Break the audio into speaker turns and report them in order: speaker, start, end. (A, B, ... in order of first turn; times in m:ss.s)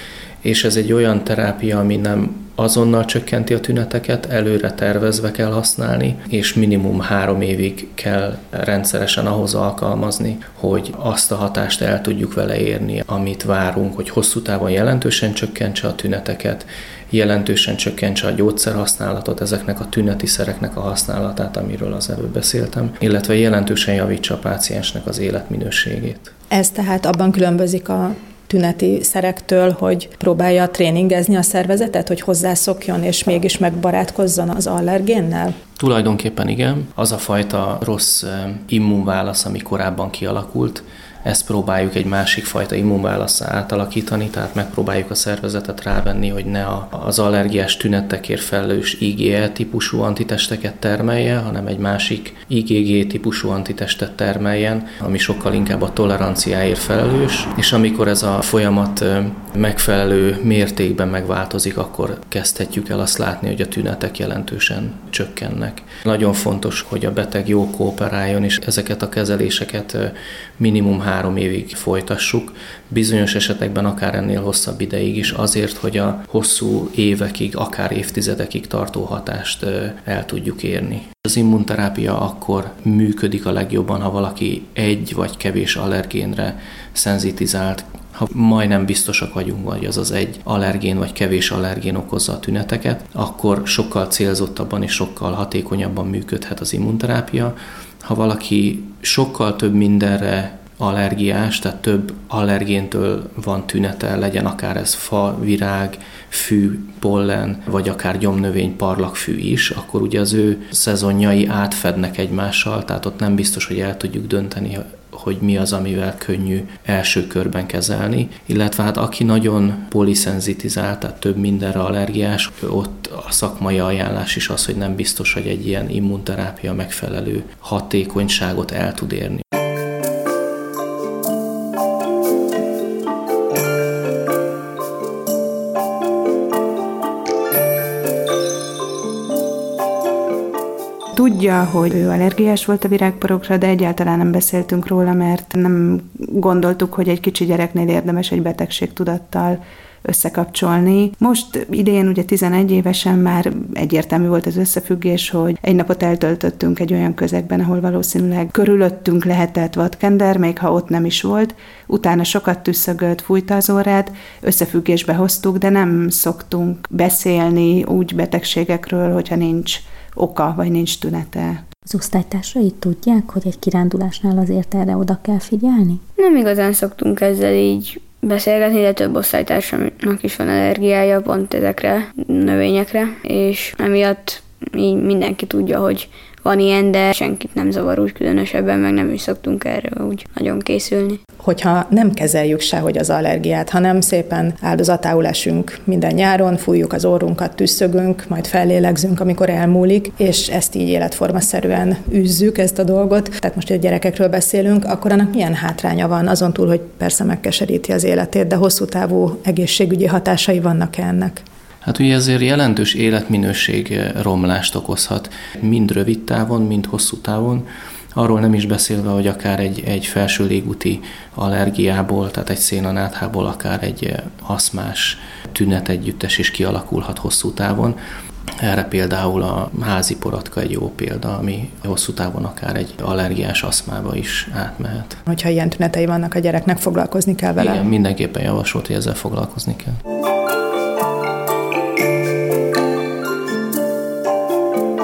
0:00.4-0:26.3 A
0:26.5-0:35.6 B
0:35.8-2:09.4 A
2:21.1-2:51.6 C
2:51.9-2:56.0 D
2:56.2-3:11.2 E
3:11.4-3:31.4 B
3:31.8-3:48.0 A
3:48.6-3:55.2 A
3:55.3-3:57.9 B
3:57.6-4:00.0 A